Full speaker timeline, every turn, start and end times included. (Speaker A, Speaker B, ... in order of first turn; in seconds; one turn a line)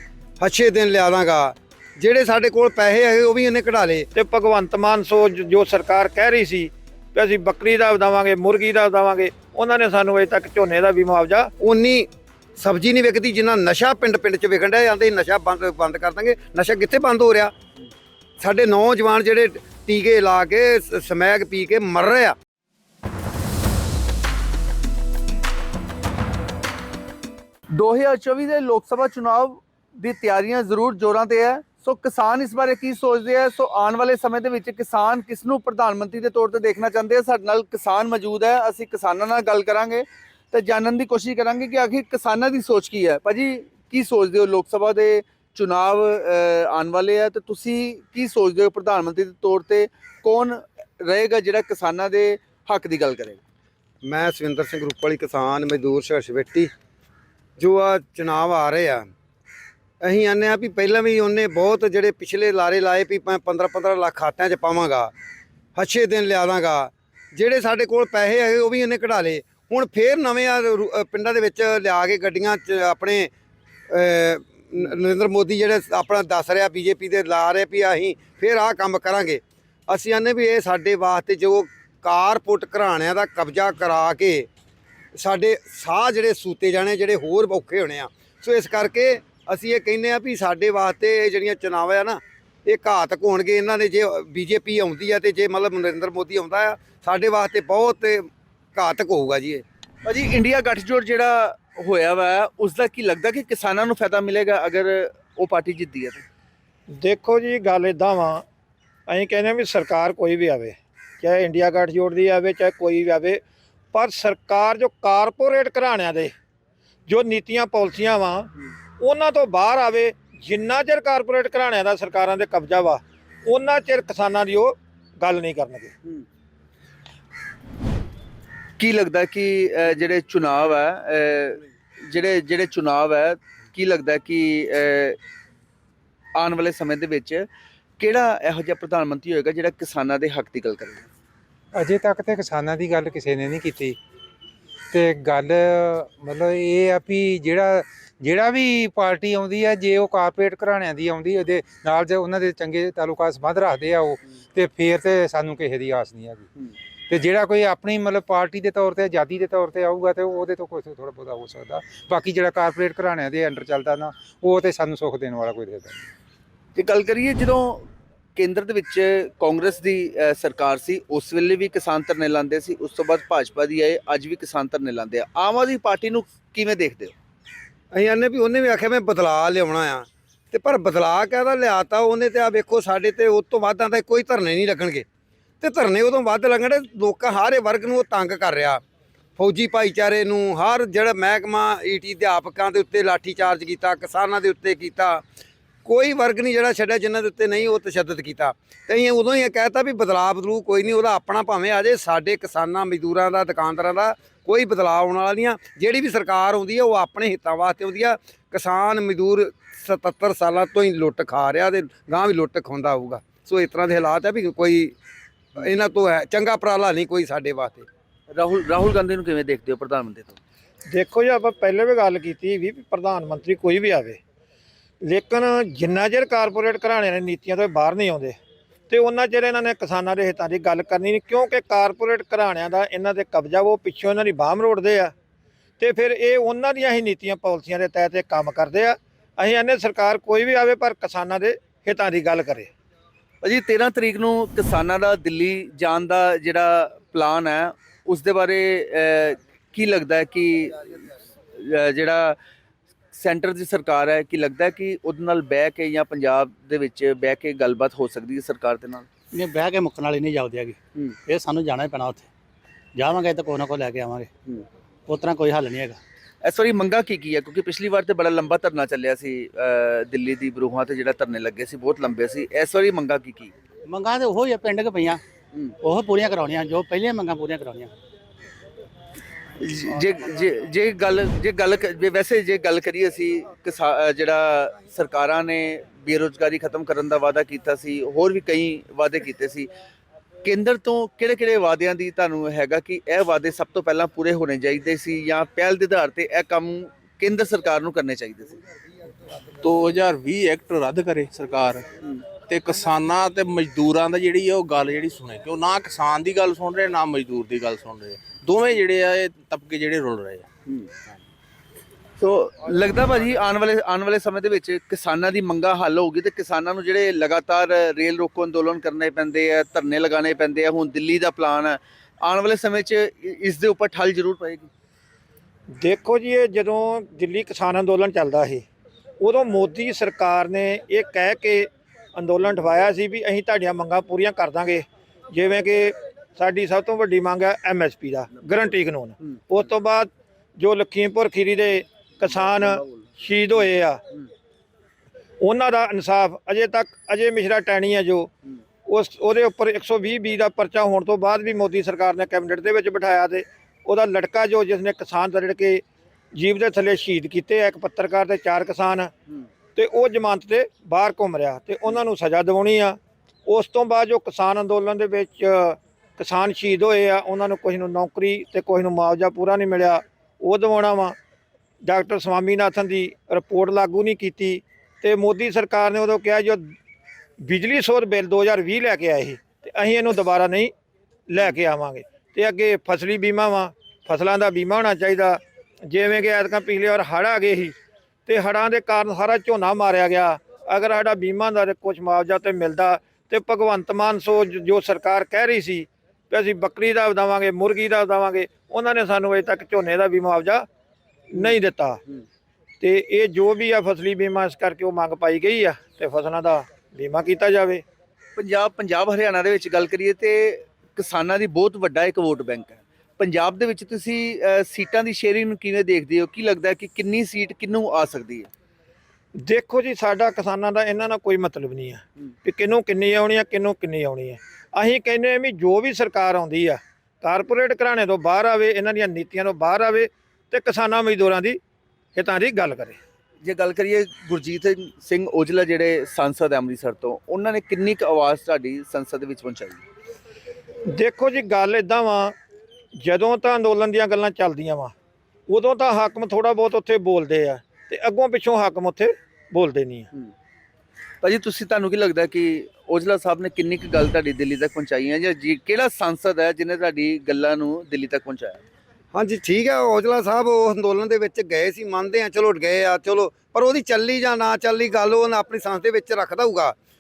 Speaker A: 0.4-4.1
Speaker B: 4.1-11.5
Speaker A: 11.6-17.5
Speaker A: 18.4-22.3
Speaker C: 27.7-53.4
Speaker A: 54.0-56.7
Speaker A: 57.6-59.1
Speaker A: 60.0-65.1
Speaker A: 65.8-73.3
Speaker A: 73.9-84.5
Speaker A: 85.2-99.6
Speaker C: 100.0-106.2
Speaker B: 106.9-108.4
Speaker B: 109.1-113.4
Speaker B: 113.9-116.3
Speaker B: 117.1-125.9
Speaker C: 128.8-135.2
Speaker C: 136.3-137.4
Speaker C: 138.0-141.1
Speaker D: 141.8-144.0
Speaker D: 144.9-156.5
Speaker D: 157.1-166.0
Speaker C: 166.8-177.1
Speaker A: 177.9-185.0
Speaker A: 185.6-188.8
Speaker A: 189.4-195.2
Speaker A: 195.8-214.9
Speaker A: 215.6-217.8
Speaker C: 218.3-220.4
Speaker B: 220.9-224.2
Speaker B: 225.0-228.3
Speaker B: 228.9-235.1
Speaker B: 235.8-242.7
Speaker C: 243.4-251.0
Speaker C: 251.6-252.4
Speaker C: 253.1-259.1
Speaker E: 259.3-262.3
Speaker E: 262.9-264.3
Speaker E: 265.1-266.0
Speaker C: 266.4-273.5
Speaker E: 273.9-275.2
Speaker E: 275.8-277.9
Speaker C: 279.6-289.7
Speaker C: 290.4-298.6
Speaker F: 299.6-301.9
Speaker F: 302.4-310.5
Speaker C: 312.2-324.7
Speaker B: 325.8-328.6
Speaker B: 329.2-344.0
Speaker B: 345.4-348.3
Speaker B: 348.9-355.8
Speaker B: 356.3-359.1
Speaker B: 359.7-371.1
Speaker B: 371.8-376.7
Speaker B: 377.4-380.7
Speaker B: 381.3-400.6
Speaker B: 401.3-402.0
Speaker B: 402.8-407.8
Speaker C: 408.4-418.5
Speaker B: 419.4-431.6
Speaker B: 432.1-433.0
Speaker C: 433.4-439.8
Speaker B: 440.9-442.3
Speaker B: 443.0-444.9
Speaker B: 445.5-450.1
Speaker C: 451.2-458.6
Speaker A: 459.1-466.7